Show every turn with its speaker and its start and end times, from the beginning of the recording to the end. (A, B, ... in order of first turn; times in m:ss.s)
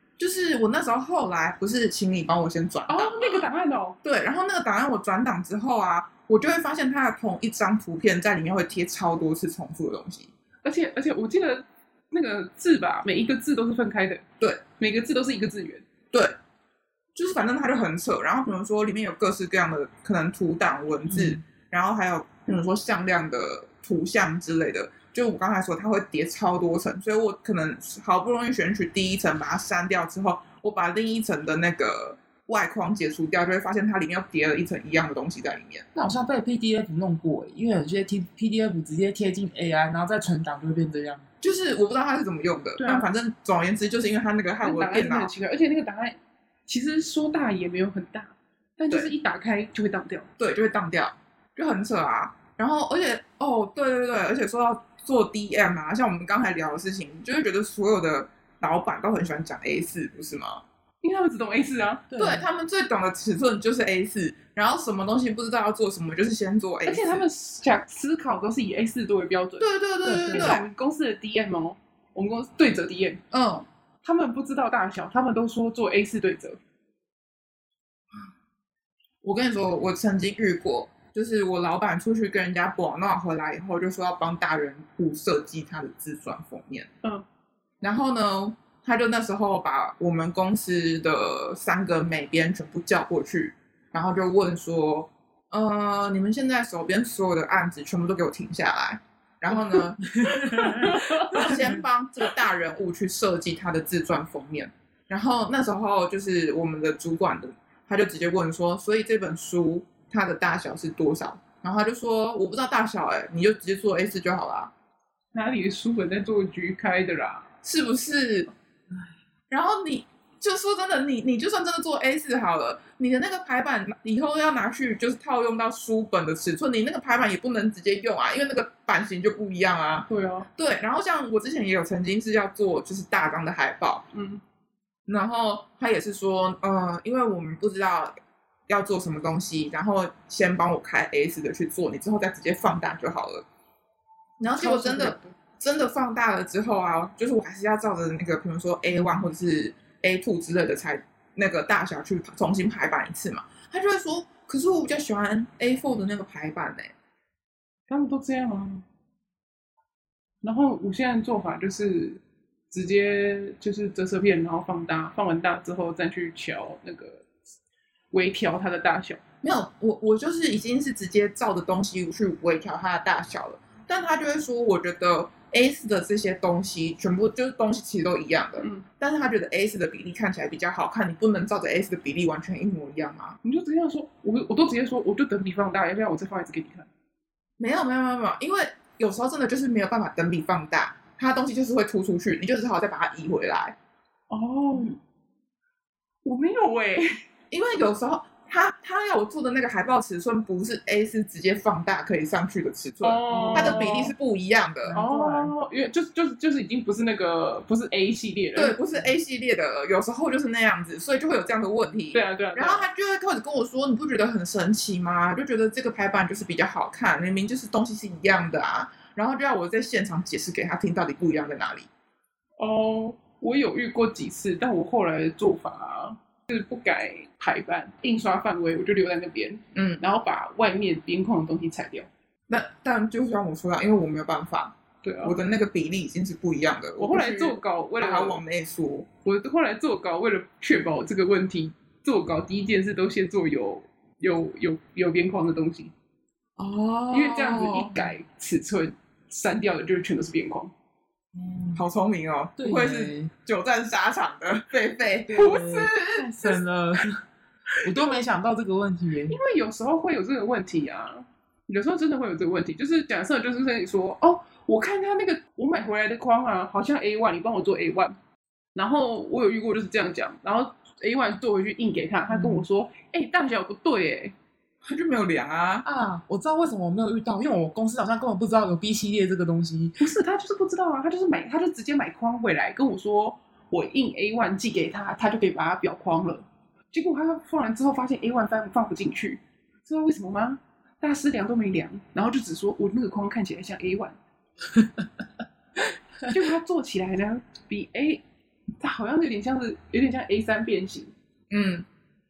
0:00.2-0:03.5 A
0:02.9-0:04.0 B
0:04.0-0:10.3 A
0:10.6-0:14.2 B
0:14.8-0:15.8 B
0:17.2-0:35.9 A
0:21.1-0:21.4 C
0:36.0-0:41.2 C
0:41.4-0:45.3 A
0:42.8-0:43.1 B
0:44.6-0:50.3 B
0:50.4-1:00.6 A
1:01.0-1:02.1 B
1:02.1-1:02.5 C
1:02.2-1:07.2 A
1:06.8-1:09.7 B
1:09.6-1:10.6 A
1:10.0-1:10.6 C
1:10.3-1:13.2 B
1:13.3-1:13.7 A
1:14.0-1:16.6 B
1:19.2-1:26.9 A
1:27.8-1:54.7 A
1:40.1-1:41.7 C
1:40.4-1:41.5 B
1:55.3-1:57.5 B
1:57.6-1:58.5 A
1:59.5-2:14.1 A
2:10.1-2:10.5 B
2:14.1-2:14.4 B
2:15.1-2:18.2 A
2:18.7-2:23.4 A
2:24.4-2:36.9 A
2:24.6-2:25.3 B
2:37.9-2:38.8 B
2:40.4-2:47.3 B
2:48.1-2:49.2 B
2:49.4-3:03.4 A
2:58.6-2:58.8 B
3:03.4-3:06.9 B
3:07.6-3:13.8 A
3:14.3-3:15.0 B
3:16.2-3:17.2 B
3:17.5-3:25.0 A
3:23.0-3:24.1 B
3:23.3-3:24.1 C
3:24.8-3:25.5 C
3:25.0-3:28.8 B
3:28.6-3:41.9 A
3:32.1-3:32.8 B
3:42.6-3:52.1 B
3:49.8-3:50.0 A
3:52.5-3:59.1 A
3:55.0-3:55.4 B
3:57.0-3:58.4 B
3:59.2-4:05.9 B
4:06.6-4:08.1 A
4:07.1-4:10.7 B
4:11.4-4:11.8 C
4:11.7-4:15.9 A
4:12.6-4:13.2 C
4:15.3-4:17.2 C
4:15.3-4:16.6 B
4:17.8-4:19.4 C
4:19.3-4:28.2 B
4:28.8-4:34.4 B
4:32.3-4:32.6 C
4:34.8-4:35.8 A
4:35.8-4:40.0 C
4:40.0-4:54.2 B
4:56.3-4:58.2 B
4:58.8-5:01.1 B
5:01.5-5:01.9 A